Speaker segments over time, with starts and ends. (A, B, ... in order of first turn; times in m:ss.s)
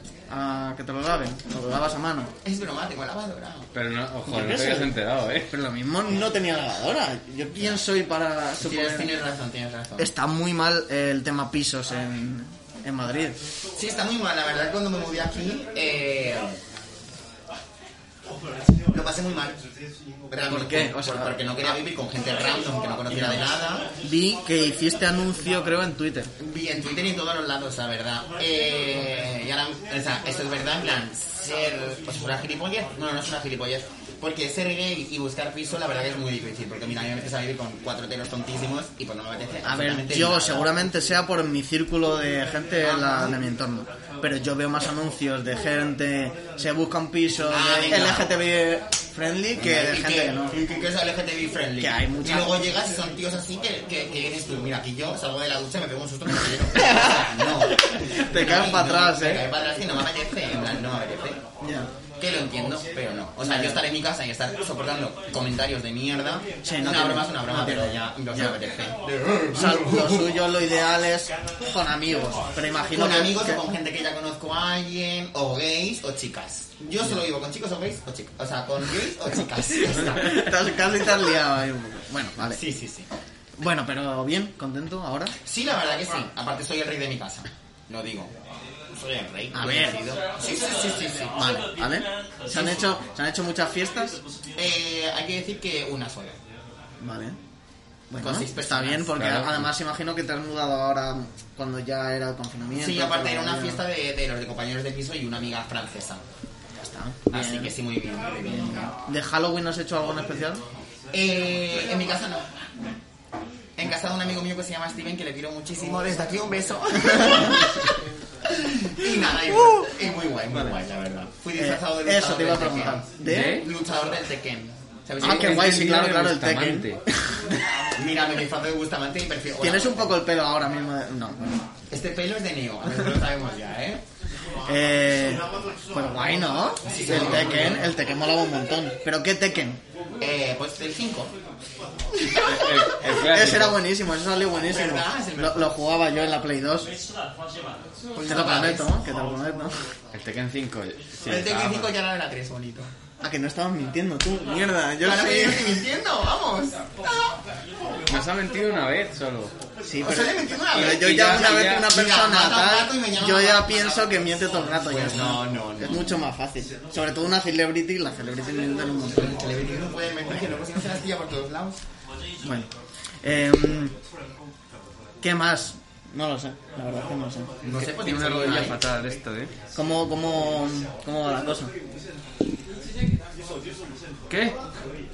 0:00.3-0:02.3 A
0:02.4-0:03.7 B
0:03.7-0:05.5 C
0:04.2-0:04.9 A
0:05.5-0:09.1 A
0:08.6-0:10.1 B
0:10.0-0:13.4 A
0:13.8-0:16.6 B
0:18.9-0:19.6 B
0:20.3-0:23.9 B
0:20.5-0:21.8 A
0:23.1-0:23.4 A
0:24.0-0:26.3 A
0:26.4-0:40.8 B
0:39.6-0:50.5 A
0:42.8-0:43.4 B
0:47.5-0:48.3 B
0:49.5-1:01.4 B
0:51.8-0:52.6 A
0:56.7-0:59.4 A
1:01.6-1:01.9 A
1:02.2-1:10.4 B
1:03.4-1:03.8 A
1:06.6-1:08.5 A
1:09.5-1:13.6 A
1:12.9-1:20.4 B
1:19.9-1:22.6 A
1:22.5-1:23.1 B
1:23.6-1:25.3 A
1:25.4-1:28.3 B
1:28.9-1:31.4 B
1:29.5-1:30.0 A
1:31.4-1:34.2 A
1:32.5-1:32.8 B
1:34.6-1:36.4 B
1:37.0-1:37.4 A
1:38.1-1:43.8 A
1:38.2-1:39.1 B
1:39.1-1:39.6 C
1:42.7-1:46.2 B
1:46.8-1:47.7 A
1:47.3-1:48.9 B
1:48.5-1:50.6 A
1:51.1-1:52.5 B
1:53.8-1:58.0 B
1:57.1-1:57.6 A
1:58.5-2:05.6 B
1:59.5-1:59.9 A
2:01.6-2:03.6 A
2:03.2-2:03.7 C
2:05.2-2:07.9 A
2:05.2-2:07.0 C
2:07.9-2:10.1 B
2:09.6-2:11.6 A
2:11.9-2:14.0 B
2:14.7-2:19.8 A
2:16.9-2:17.8 B
2:17.1-2:17.8 C
2:20.2-2:21.3 B
2:22.3-2:23.8 C
2:22.6-2:26.9 A
2:24.6-2:25.7 B
2:28.1-2:28.9 B
2:28.2-2:29.8 A
2:30.1-2:31.9 C
2:31.2-2:32.9 B
2:33.2-2:35.8 A
2:35.0-2:37.3 B
2:38.1-2:39.5 C
2:39.8-2:49.3 A
2:40.0-2:44.2 B
2:40.8-2:41.9 C
2:44.8-2:46.2 B
2:49.1-2:51.8 B
2:52.4-2:52.7 A
2:53.2-2:53.9 A
2:55.2-2:57.5 A
2:57.6-2:58.8 B
2:57.7-2:59.5 C
2:59.7-3:01.7 A
3:04.3-3:04.6 C